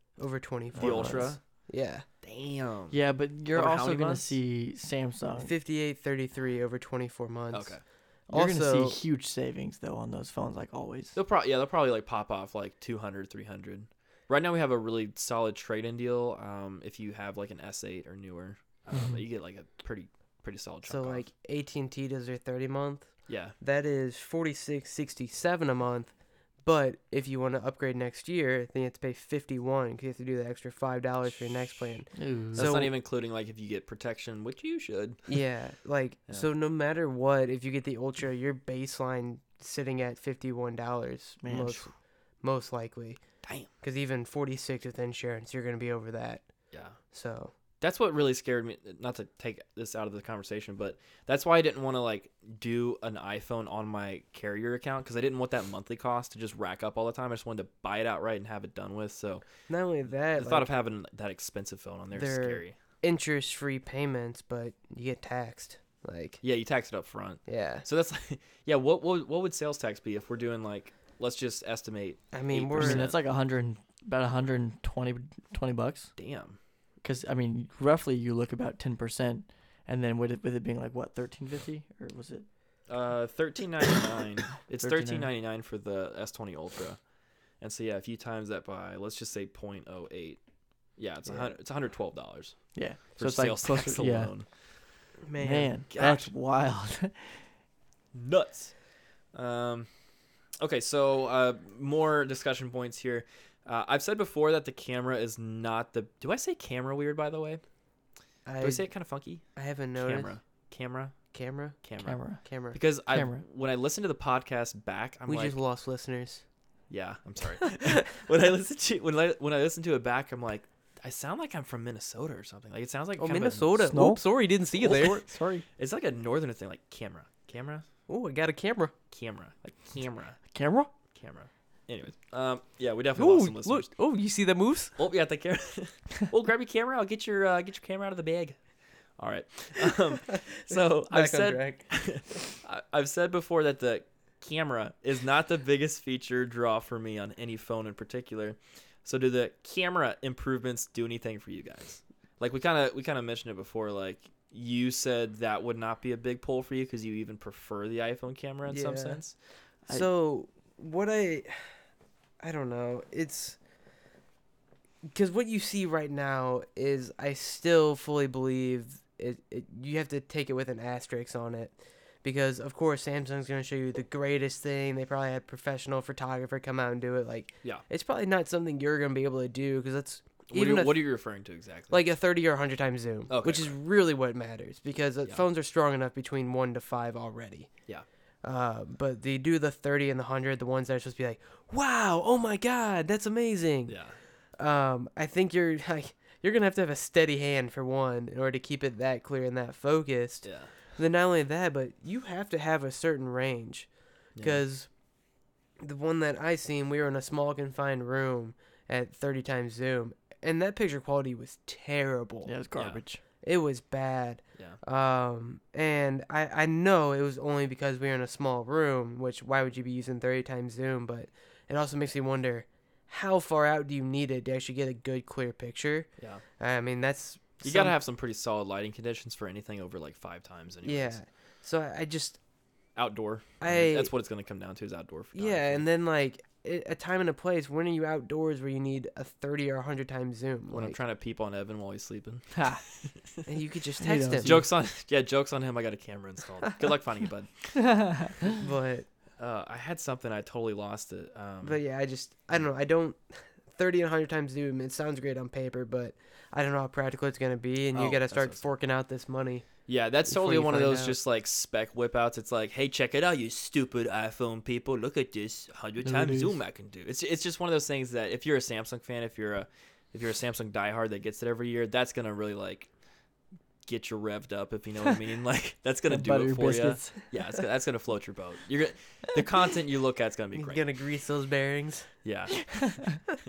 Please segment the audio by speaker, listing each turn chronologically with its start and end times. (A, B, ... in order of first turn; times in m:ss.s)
0:00.2-0:02.0 A
0:00.8-0:01.3 B
0:00.8-0:01.4 C
0:02.2-0:03.0 C
0:02.9-0:05.5 B
0:03.5-0:04.4 C
0:05.4-0:09.0 A
0:07.5-0:07.8 C
0:08.3-0:11.2 B
0:11.2-0:21.2 C
0:18.9-0:19.2 B
0:20.9-0:26.1 A
0:23.3-0:23.5 C
0:26.6-0:32.9 A
0:32.2-0:32.7 B
0:32.6-0:35.4 C
0:35.3-0:43.2 A
0:41.4-0:41.8 B
0:43.4-0:43.7 C
0:43.8-0:46.4 A
0:47.1-0:47.5 A
0:47.8-0:59.4 C
0:59.7-1:00.7 A
1:00.3-1:02.8 C
1:02.1-1:06.4 A
1:06.4-1:13.2 C
1:07.5-1:07.9 A
1:12.3-1:13.1 A
1:12.8-1:16.1 B
1:16.2-1:16.6 C
1:17.0-1:22.5 B
1:22.9-1:27.0 C
1:24.8-1:25.3 B
1:27.6-1:30.4 C
1:31.0-1:34.5 C
1:31.3-1:31.5 A
1:32.7-1:34.3 B
1:35.2-1:35.8 A
1:35.4-1:37.4 B
1:35.9-1:36.3 C
1:38.1-1:38.7 C
1:39.3-1:39.9 C
1:40.6-1:47.6 C
1:48.5-1:48.9 A
1:48.6-1:49.4 C
1:49.6-1:50.3 A
1:50.0-1:51.2 C
1:51.3-1:51.8 A
1:51.8-1:52.2 C
1:52.0-1:52.4 B
1:52.4-1:52.8 A
1:52.7-1:55.6 C
1:53.1-1:53.4 B
1:55.3-1:56.4 A
1:56.9-2:03.9 C
1:57.7-1:58.0 A
2:03.2-2:05.3 A
2:03.9-2:04.2 B
2:04.8-2:07.9 C
2:04.8-2:05.6 B
2:08.1-2:08.9 A
2:09.1-2:10.4 C
2:10.5-2:10.9 B
2:11.1-2:13.9 C
2:13.2-2:15.0 A
2:15.0-2:18.6 C
2:19.2-2:39.4 C
2:21.1-2:22.1 A
2:38.7-2:39.2 A
2:39.9-2:41.7 A
2:42.4-2:43.6 A
2:45.1-3:01.0 A
3:00.5-3:02.0 C
3:01.9-3:07.7 A
3:03.3-3:03.8 C
3:08.4-3:14.0 A
3:13.9-3:14.2 C
3:14.6-3:23.9 A
3:20.4-3:20.7 C
3:24.4-3:24.6 C
3:24.4-3:24.9 A
3:25.8-3:32.5 A
3:32.4-3:33.2 B
3:33.4-3:47.9 A
3:47.6-3:51.2 C
3:50.8-3:52.4 A
3:53.0-3:55.8 C
3:53.6-3:54.1 A
3:55.3-4:01.0 A
4:00.7-4:03.4 C
4:03.5-4:04.6 A
4:04.0-4:04.6 B
4:04.4-4:08.5 C
4:07.8-4:08.4 B
4:08.5-4:09.1 A
4:09.4-4:11.8 C
4:11.6-4:21.2 A
4:17.9-4:18.7 C
4:19.9-4:32.9 C
4:26.0-4:26.6 B
4:33.9-4:40.8 C
4:36.1-4:37.2 B
4:40.6-4:42.1 A
4:42.2-4:42.9 C
4:42.7-4:43.2 B